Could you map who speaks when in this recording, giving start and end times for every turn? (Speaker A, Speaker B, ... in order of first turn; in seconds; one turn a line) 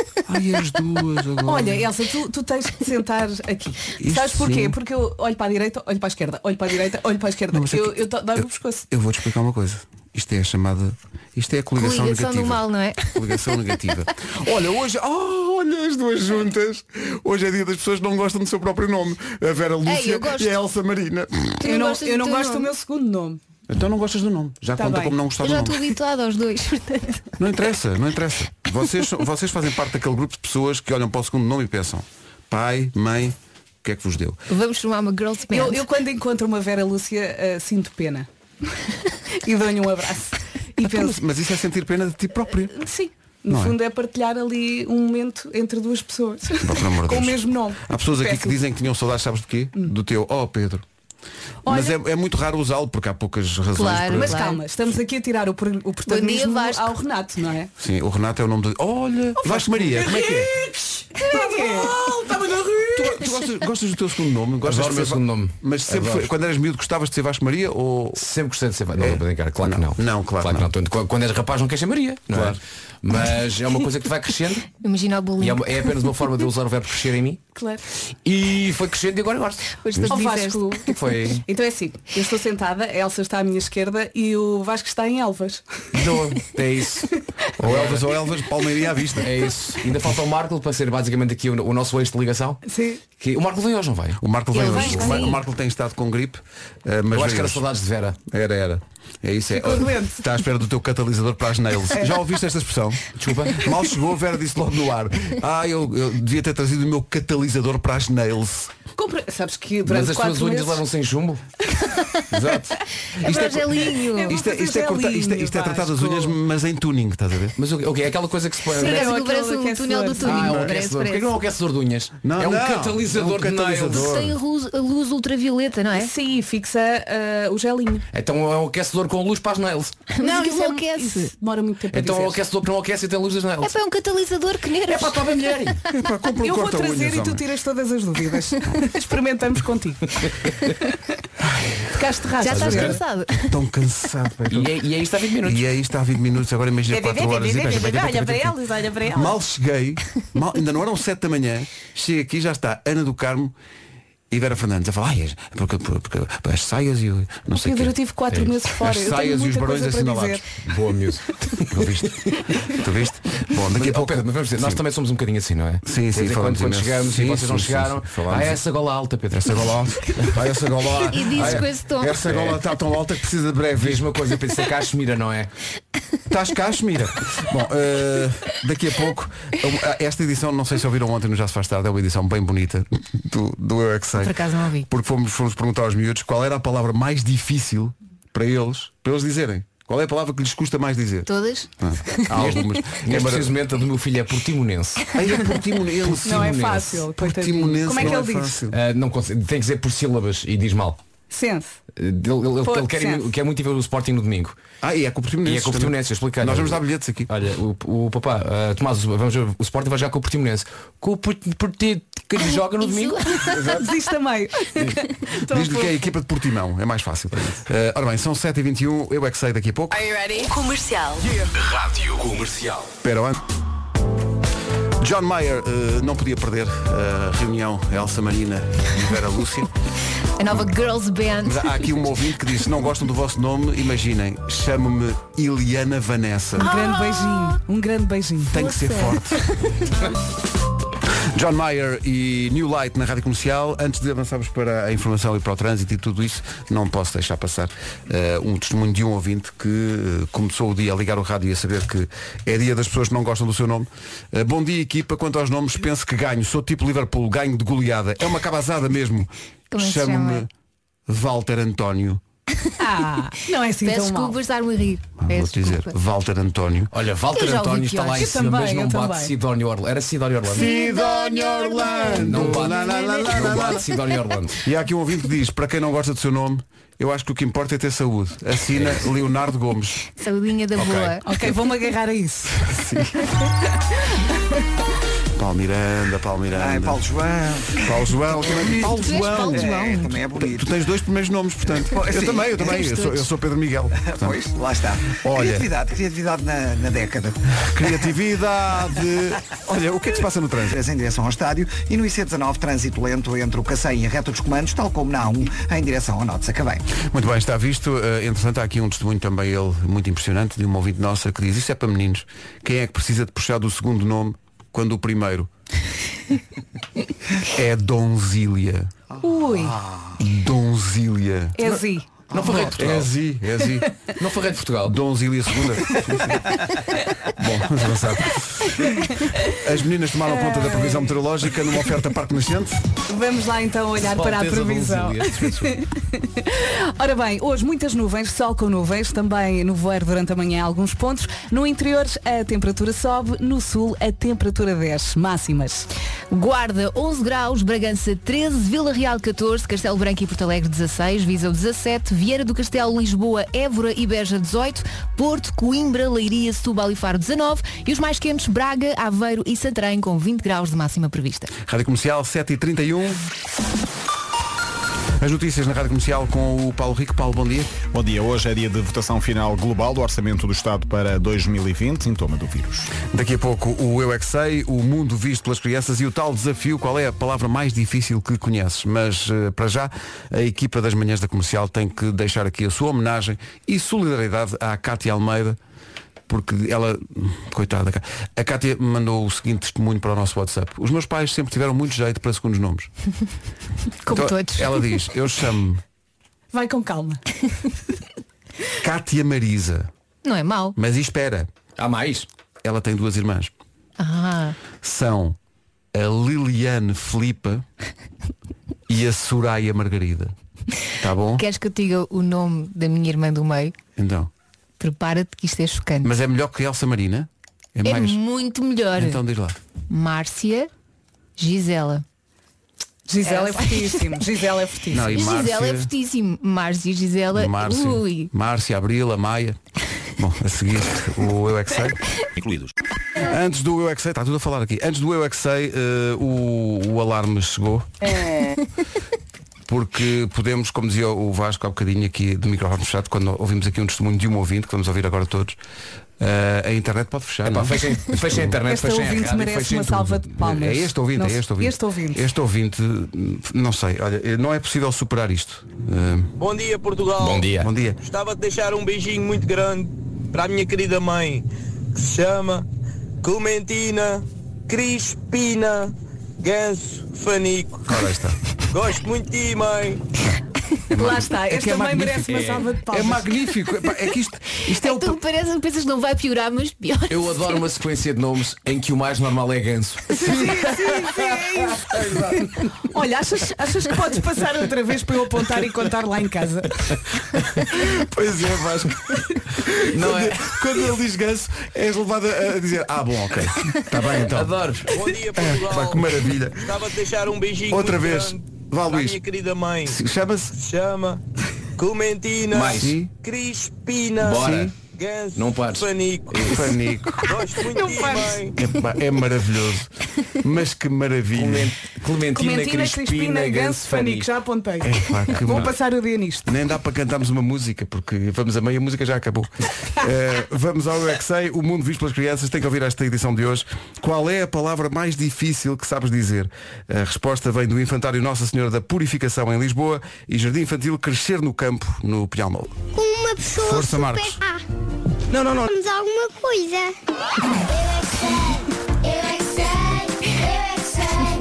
Speaker A: 0.3-1.9
Speaker B: 1.4-8.9
Speaker A: 4.0-4.8
Speaker A: 7.5-12.6
Speaker C: 11.8-13.6
Speaker A: 13.1-21.6
Speaker C: 19.9-20.6
Speaker C: 21.6-22.7
Speaker B: 21.6-23.4
Speaker A: 23.7-25.9
Speaker B: 24.8-25.2
Speaker C: 25.4-27.2
Speaker A: 27.4-34.4
Speaker C: 34.5-35.8
Speaker B: 35.5-38.3
Speaker B: 39.4-41.2
Speaker A: 40.8-42.7
Speaker B: 42.7-48.6
Speaker A: 43.5-43.8
Speaker A: 46.6-50.8
Speaker B: 51.6-52.0
Speaker A: 51.7-54.3
Speaker C: 53.7-54.6
Speaker B: 54.1-57.7
Speaker C: 56.0-56.9
Speaker A: 57.8-60.5
Speaker B: 59.4-60.1
Speaker D: 60.0-60.5
Speaker B: 61.2-61.9
Speaker D: 61.4-63.2
Speaker A: 62.9-68.3
Speaker D: 64.6-66.3
Speaker D: 68.2-74.7
Speaker A: 69.0-70.7
Speaker A: 72.3-72.6
Speaker C: 74.7-76.2
Speaker D: 75.4-77.4
Speaker B: 77.6-77.8
Speaker D: 78.2-79.7
Speaker C: 79.8-81.3
Speaker B: 80.1-80.9
Speaker D: 80.9-81.4
Speaker B: 81.5-85.7
Speaker D: 85.9-87.1
Speaker A: 87.6-89.3
Speaker D: 87.6-88.1
Speaker D: 89.2-92.6
Speaker B: 92.7-93.0
Speaker D: 93.2-94.2
Speaker A: 94.2-97.6
Speaker C: 94.5-95.4
Speaker B: 94.6-95.3
Speaker D: 97.1-98.2
Speaker A: 98.3-108.7
Speaker B: 99.5-100.3
Speaker D: 103.2-103.7
Speaker B: 109.0-110.8
Speaker D: 109.8-111.4
Speaker B: 111.7-112.0
Speaker D: 112.3-112.7
Speaker A: 113.2-117.5
Speaker C: 113.2-114.4
Speaker B: 113.2-116.4
Speaker D: 117.6-119.1
Speaker B: 118.7-120.5
Speaker C: 118.7-121.4
Speaker D: 120.2-124.1
Speaker A: 120.4-120.7
Speaker A: 122.2-124.4
Speaker C: 124.0-126.1
Speaker B: 125.9-128.1
Speaker D: 128.1-130.0
Speaker C: 130.1-131.3
Speaker B: 130.2-132.4
Speaker D: 131.9-133.7
Speaker C: 133.6-135.2
Speaker D: 134.9-135.8
Speaker A: 135.9-137.4
Speaker B: 136.4-140.2
Speaker B: 140.8-141.1
Speaker B: 141.9-143.0
Speaker C: 142.4-143.5
Speaker D: 142.6-142.9
Speaker A: 143.5-144.8
Speaker D: 144.5-145.7
Speaker A: 145.4-148.5
Speaker B: 146.9-149.3
Speaker A: 149.1-153.6
Speaker A: 154.3-157.9
Speaker B: 157.6-160.4
Speaker A: 158.6-160.4
Speaker D: 160.7-162.0
Speaker A: 161.7-164.8
Speaker D: 163.7-169.7
Speaker A: 165.8-168.6
Speaker A: 169.3-174.1
Speaker C: 171.1-172.2
Speaker D: 171.3-171.7
Speaker D: 172.2-172.6
Speaker D: 173.8-175.5
Speaker A: 176.3-193.5
Speaker C: 184.2-184.9
Speaker C: 191.3-192.4
Speaker D: 192.3-195.2
Speaker A: 195.1-198.8
Speaker D: 196.2-197.0
Speaker B: 196.2-198.6
Speaker D: 198.7-201.0
Speaker B: 201.3-201.8
Speaker D: 201.9-204.6
Speaker B: 202.6-203.2
Speaker A: 204.8-207.3
Speaker D: 205.4-213.5
Speaker C: 212.8-213.6
Speaker B: 213.5-216.1
Speaker A: 215.5-220.1
Speaker E: 220.0-221.3
Speaker D: 221.9-222.7
Speaker A: 222.9-223.4
Speaker A: 225.0-229.7
Speaker C: 230.4-231.8
Speaker A: 231.4-236.7
Speaker B: 236.6-238.6
Speaker C: 236.7-237.6
Speaker A: 238.5-239.4
Speaker C: 238.6-239.7
Speaker A: 241.3-260.5
Speaker C: 259.7-260.5
Speaker A: 261.1-262.2
Speaker B: 262.8-264.4
Speaker C: 263.8-265.9
Speaker A: 265.2-266.9
Speaker D: 266.9-270.7
Speaker C: 267.3-268.3
Speaker B: 268.2-269.3
Speaker A: 270.5-273.9
Speaker C: 270.5-273.5
Speaker D: 272.2-274.6
Speaker A: 274.6-280.0
Speaker D: 278.7-279.1
Speaker C: 280.1-281.3
Speaker D: 280.8-281.1
Speaker B: 281.2-282.5
Speaker A: 282.6-283.2
Speaker A: 285.4-287.0
Speaker F: 286.5-287.8
Speaker A: 287.7-289.7
Speaker F: 288.4-290.7
Speaker C: 288.8-290.2
Speaker A: 290.4-294.4
Speaker F: 291.7-292.8
Speaker C: 292.7-293.3
Speaker F: 294.0-297.4
Speaker A: 295.1-295.7
Speaker A: 297.6-300.8
Speaker F: 300.7-306.8
Speaker A: 306.9-315.5
Speaker A: 317.5-318.9
Speaker B: 319.2-319.7
Speaker F: 319.6-320.1
Speaker A: 320.2-321.9
Speaker B: 321.6-322.8
Speaker D: 322.3-323.1
Speaker A: 322.4-323.9
Speaker D: 324.2-325.0
Speaker A: 324.8-326.5
Speaker A: 327.4-328.7
Speaker B: 328.9-329.3
Speaker A: 329.5-332.8
Speaker B: 330.3-331.2
Speaker B: 333.1-345.9
Speaker D: 334.1-335.8
Speaker C: 346.3-361.5
Speaker A: 361.6-363.2
Speaker A: 365.2-367.7
Speaker G: 367.9-372.9
Speaker A: 372.9-385.6
Speaker A: 386.3-392.9
Speaker C: 394.1-394.9
Speaker A: 394.1-395.8
Speaker B: 396.5-397.2
Speaker A: 398.8-399.9
Speaker C: 400.2-400.8
Speaker A: 400.7-401.5
Speaker D: 401.8-402.3
Speaker A: 402.6-403.5
Speaker C: 404.0-404.6
Speaker A: 404.7-405.4
Speaker A: 405.9-407.6
Speaker A: 408.9-410.3
Speaker A: 411.0-411.4
Speaker C: 411.4-413.8
Speaker A: 413.9-414.3
Speaker C: 414.8-416.1
Speaker A: 416.0-418.2
Speaker C: 417.8-419.2
Speaker A: 418.9-419.6
Speaker C: 419.9-420.7
Speaker C: 421.4-422.0
Speaker B: 423.1-425.1
Speaker C: 423.2-424.1
Speaker A: 424.9-425.9
Speaker C: 425.1-428.3
Speaker A: 427.3-429.6
Speaker A: 430.2-432.0
Speaker A: 433.2-437.9
Speaker A: 439.7-445.6
Speaker A: 446.2-448.6
Speaker D: 447.4-450.4
Speaker B: 448.7-452.2
Speaker A: 450.4-456.3
Speaker H: 456.4-457.5
Speaker D: 457.2-457.7
Speaker A: 457.5-458.0
Speaker H: 458.0-462.7
Speaker H: 463.2-467.9
Speaker A: 467.9-468.4
Speaker H: 468.7-470.0
Speaker A: 470.9-475.2
Speaker B: 470.9-473.3
Speaker D: 472.3-472.7
Speaker C: 474.7-477.6
Speaker D: 477.1-480.2
Speaker B: 480.1-481.9
Speaker A: 480.2-481.1
Speaker A: 481.9-482.5
Speaker B: 482.8-486.8
Speaker A: 487.7-494.6
Speaker D: 489.9-490.6
Speaker D: 494.3-494.9
Speaker H: 494.9-496.0
Speaker A: 495.3-496.7
Speaker H: 496.6-500.0
Speaker A: 497.7-499.2
Speaker A: 499.9-500.6
Speaker H: 500.6-501.2
Speaker H: 501.8-506.5
Speaker D: 502.5-503.0
Speaker A: 502.8-503.1
Speaker D: 504.2-504.7
Speaker A: 504.4-504.7
Speaker D: 505.3-506.7
Speaker A: 506.4-507.3
Speaker H: 507.3-508.6
Speaker B: 507.7-508.5
Speaker A: 508.6-509.9
Speaker A: 510.4-511.7
Speaker D: 511.3-514.3
Speaker B: 512.4-516.5
Speaker A: 514.8-515.7
Speaker A: 516.4-532.8
Speaker E: 533.0-533.4
Speaker A: 533.5-534.4
Speaker E: 535.8-536.8